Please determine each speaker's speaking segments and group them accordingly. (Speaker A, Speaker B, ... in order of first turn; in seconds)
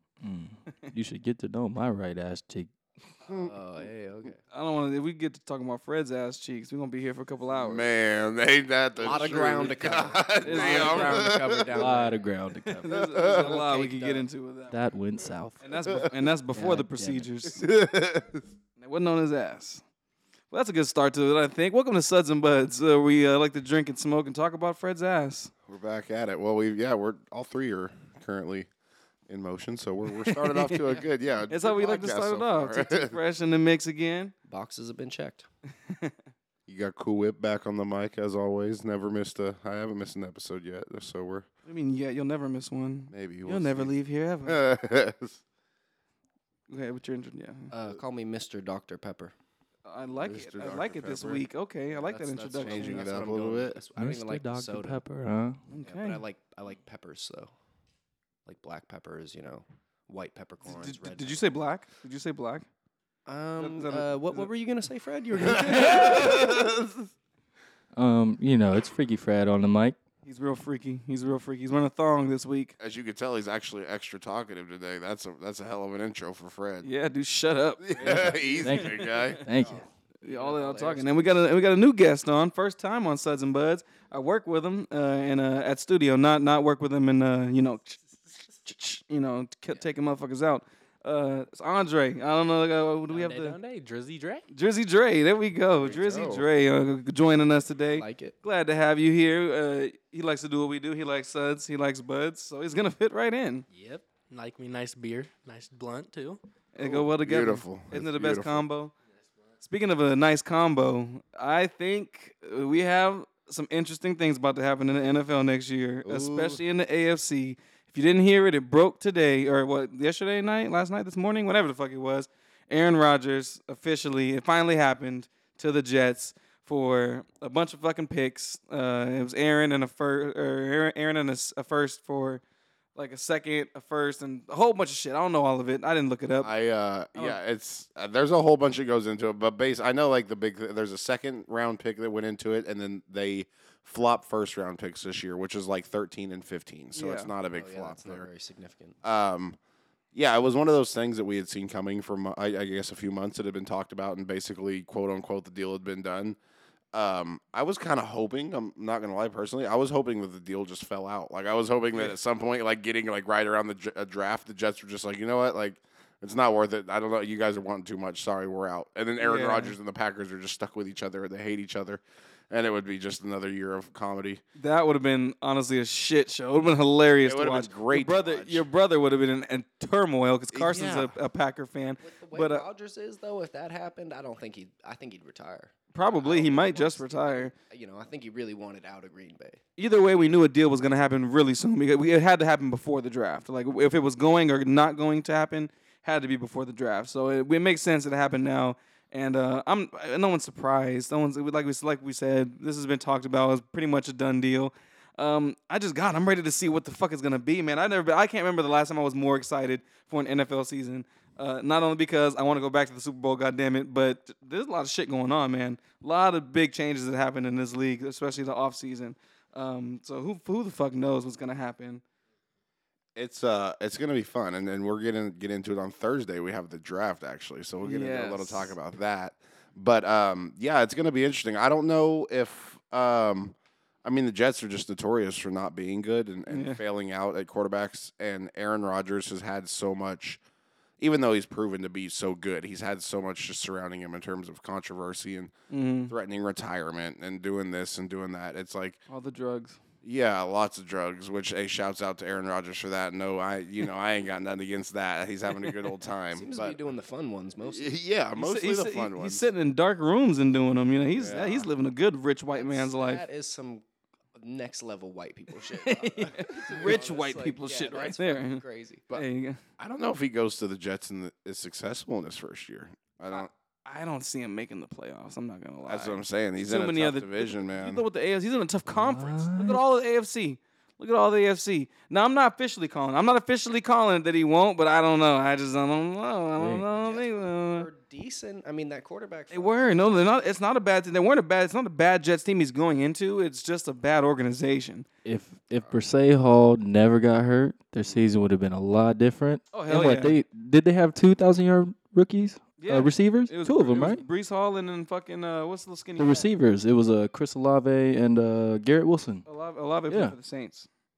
Speaker A: 0.2-2.7, 11.7-12.9, 14.7-15.7, 16.5-17.3, 54.0-55.6, 68.0-70.0, 78.6-79.8, 278.9-279.8, 286.6-286.9, 295.2-304.2, 306.2-309.4, 310.1-310.4
Speaker B: 3.3-3.5, 7.6-11.9, 12.9-13.5, 17.4-18.5, 25.7-28.7, 29.3-33.2, 36.7-41.5, 43.1-43.9, 44.5-45.4, 50.2-51.5, 52.6-53.8, 65.7-66.7, 72.8-76.9, 77.8-79.4, 95.8-96.5, 106.8-108.6, 116.0-116.6, 136.4-148.3, 149.0-149.6, 150.1-156.4, 156.9-174.4, 177.2-178.7, 180.5-181.2, 223.2-240.4, 241.0-245.5, 246.1-249.0, 250.0-256.8, 257.7-259.5, 261.2-261.7, 269.8-273.5, 275.9-278.0
Speaker C: 3.4-4.4, 9.0-12.2, 13.0-14.3, 34.5-35.5, 47.7-49.3, 51.9-55.0, 55.8-57.5, 58.5-61.4, 63.3-66.7, 78.0-78.7, 79.6-81.1, 97.9-98.3, 147.5-149.0, 182.0-189.6, 256.3-257.9, 262.5-263.8, 264.4-269.1, 286.9-290.4
Speaker D: 4.5-7.9, 10.4-11.3, 12.7-14.8, 15.6-17.6, 18.8-19.8, 20.5-25.5, 30.3-34.3, 41.7-44.6, 46.7-47.7, 49.9-53.1, 55.7-56.2, 60.6-62.7, 63.6-64.5, 65.6-66.5, 70.2-72.8, 76.8-79.4, 80.2-88.0, 88.7-93.6, 94.5-103.7, 106.8-108.9, 109.6-132.4, 133.0-136.5, 146.9-147.3, 169.2-169.8, 174.6-182.6, 185.9-187.5, 189.8-222.0, 227.8-228.7, 236.5-236.8, 245.7-246.1, 249.1-249.8, 258.4-263.2, 265.8-269.6, 273.9-287.9, 289.5-295.1, 299.7-300.4, 302.8-306.5, 309.4-310.9
Speaker E: 93.1-94.5, 103.7-106.4